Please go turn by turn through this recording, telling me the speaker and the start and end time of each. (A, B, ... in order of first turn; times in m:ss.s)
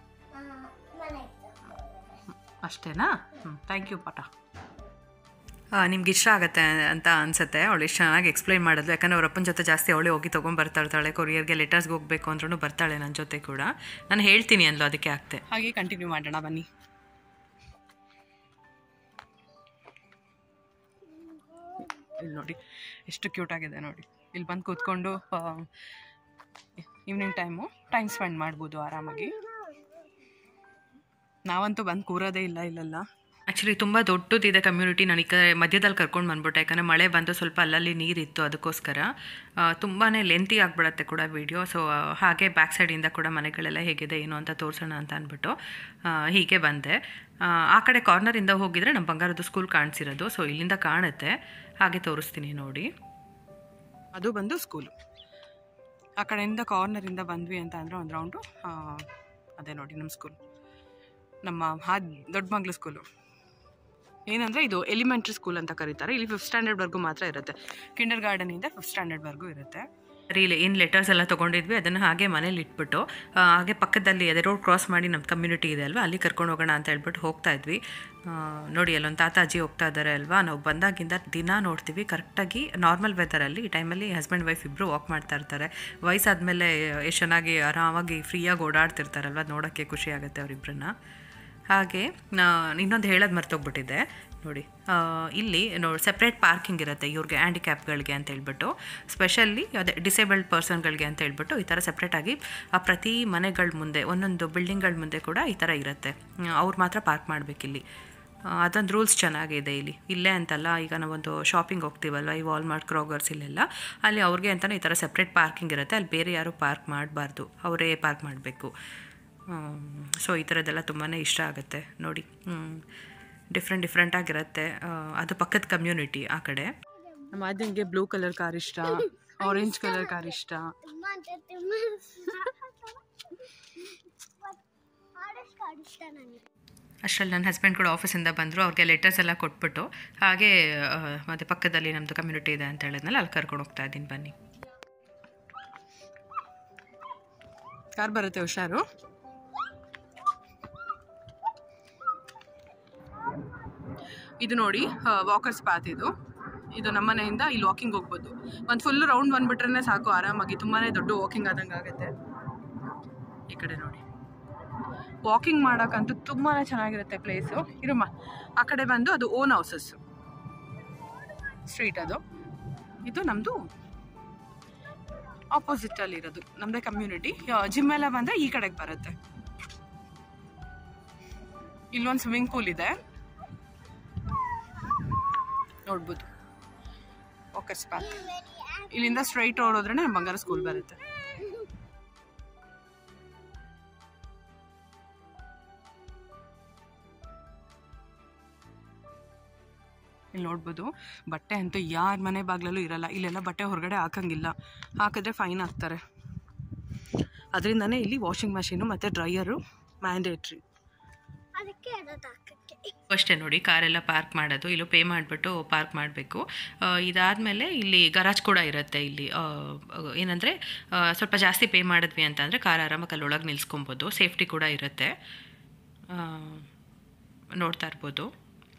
0:00.3-0:02.3 A
0:02.6-0:04.3 B
0:05.7-0:15.4 C
0:15.5-0:16.7 B
0:21.0-0:22.1 A
0:22.2-0:25.7 B
0:27.0-0:29.4 B
0:29.1-0:30.1 A
0:31.4-0:33.0 B
0:33.5-0:39.1 C
0:39.6-0:52.9 C
0:54.1-0:54.9 B
0:56.2-1:00.4 B
1:01.4-1:03.0 B
1:04.3-1:09.9 B
1:10.3-1:30.9 C
1:31.7-1:47.8 C
1:48.5-1:58.7 C
1:59.5-2:02.8 C
2:03.5-2:06.7 C
2:06.9-2:07.9 A
2:07.3-2:10.7 B
2:08.8-2:14.6 A
2:15.2-2:16.5 A
2:17.0-2:24.4 C
2:28.0-2:28.8 B
2:34.4-2:36.1 B
2:36.7-2:42.1 B
2:43.5-2:44.0 B
2:45.2-2:50.0 B
2:51.0-2:51.6 A
2:51.6-2:52.2 B
2:53.0-2:53.6 B
2:55.0-2:55.4 A
2:55.5-2:59.2 B
3:01.9-3:03.0 B
3:04.3-3:05.1 A
3:05.8-3:06.3 B
3:07.5-3:08.3 B
3:08.0-3:11.7 A
3:08.9-3:11.0 B
3:20.3-3:26.0 B
3:27.5-3:30.6 B
3:31.6-3:33.0 A
3:33.1-3:45.1 C
3:46.1-3:46.7 C
3:47.6-3:48.3 C